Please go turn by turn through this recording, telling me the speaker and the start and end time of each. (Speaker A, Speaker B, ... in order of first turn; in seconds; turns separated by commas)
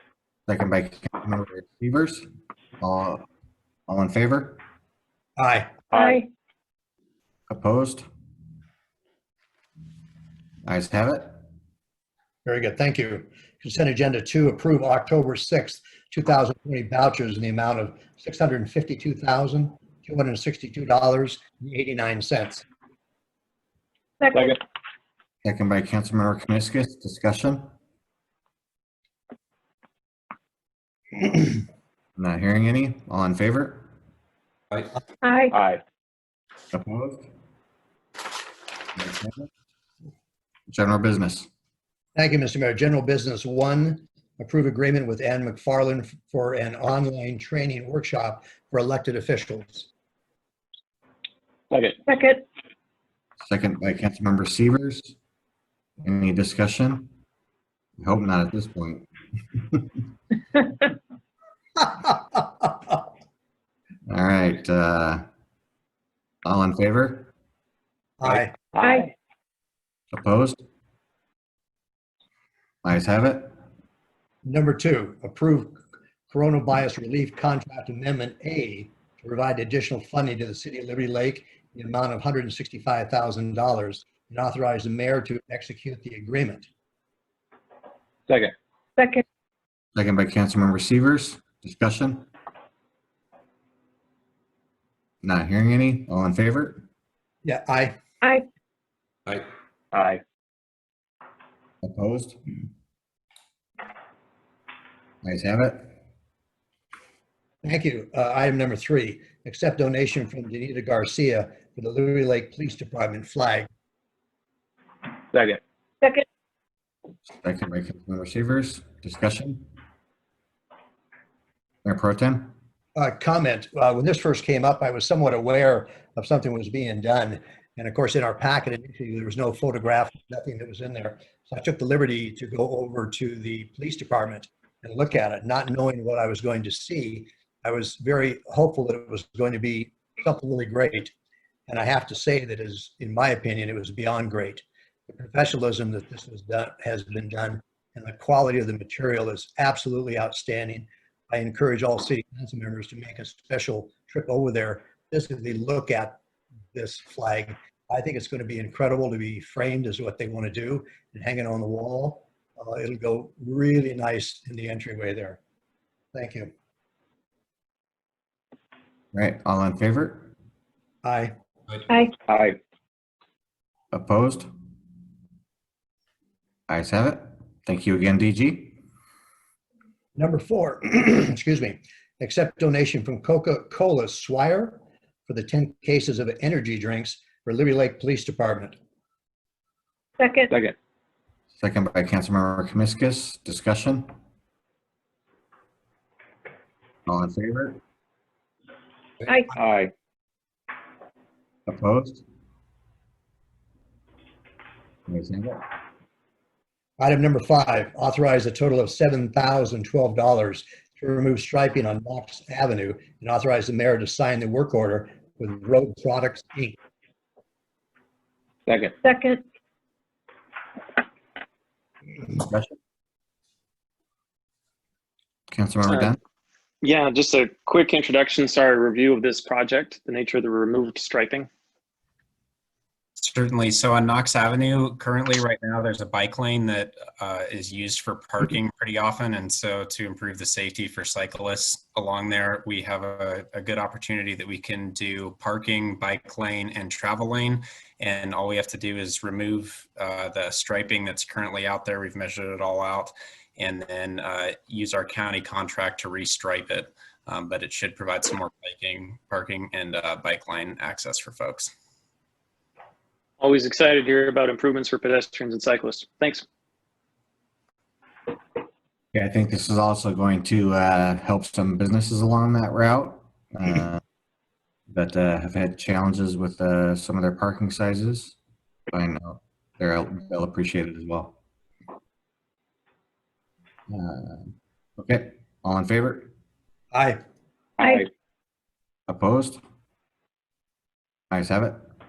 Speaker A: 0.5-2.2, Speaker A: 2.8-3.2, Speaker A: 3.9-4.6, Speaker B: 5.4-5.7, Speaker C: 5.9-6.2, Speaker D: 5.9-6.3, Speaker A: 7.5-8.1, Speaker A: 10.7-11.3, Speaker B: 12.4-22.6, Speaker D: 24.2-24.6, Speaker A: 25.4-27.7, Speaker A: 32.2-33.9, Speaker D: 35.2-35.5, Speaker C: 35.5-35.8, Speaker A: 36.7-37.2, Speaker A: 39.0-39.5, Speaker A: 40.7-41.5, Speaker B: 42.1-49.9, Speaker C: 51.7-52.0, Speaker D: 52.0-52.4, Speaker A: 53.4-55.1, Speaker A: 56.0-57.1, Speaker A: 58.0-59.1, Speaker B: 61.8-62.4, Speaker A: 64.1-65.2, Speaker A: 66.4-67.3, Speaker B: 68.2-68.6, Speaker C: 68.3-69.1, Speaker D: 68.8-69.1, Speaker A: 70.1-70.6, Speaker A: 72.8-73.5, Speaker B: 74.4-86.7, Speaker C: 88.3-88.5, Speaker D: 89.0-89.2, Speaker A: 89.9-92.3, Speaker A: 95.2-96.8, Speaker B: 97.4-98.0, Speaker D: 98.2-98.5, Speaker C: 99.9-100.2, Speaker A: 101.8-102.4, Speaker A: 105.2-105.9, Speaker B: 107.6-113.7, Speaker C: 115.3-115.6, Speaker A: 117.3-119.6, Speaker A: 121.8-122.5, Speaker B: 123.0-141.1, Speaker B: 141.7-156.2, Speaker B: 156.7-165.4, Speaker B: 166.1-166.5, Speaker A: 169.1-170.3, Speaker B: 171.0-171.3, Speaker D: 171.9-172.1, Speaker C: 172.3-172.6, Speaker A: 173.9-174.5, Speaker A: 176.7-178.8, Speaker B: 180.2-188.8, Speaker D: 190.2-190.5, Speaker A: 191.6-194.1, Speaker A: 197.1-197.8, Speaker D: 199.2-199.5, Speaker C: 199.5-199.9, Speaker A: 201.7-202.2, Speaker A: 205.1-205.6, Speaker B: 207.0-216.8, Speaker C: 218.7-218.9, Speaker D: 219.0-219.4, Speaker A: 222.2-222.7, Speaker A: 225.5-226.2, Speaker C: 226.8-231.5, Speaker E: 233.2-261.7, Speaker C: 263.4-266.4, Speaker A: 269.1-274.0, Speaker A: 274.9-278.4, Speaker A: 278.9-281.4, Speaker A: 283.9-284.5, Speaker A: 285.0-286.3, Speaker B: 286.9-287.2, Speaker D: 287.8-288.1, Speaker A: 289.1-289.6, Speaker A: 291.3-291.8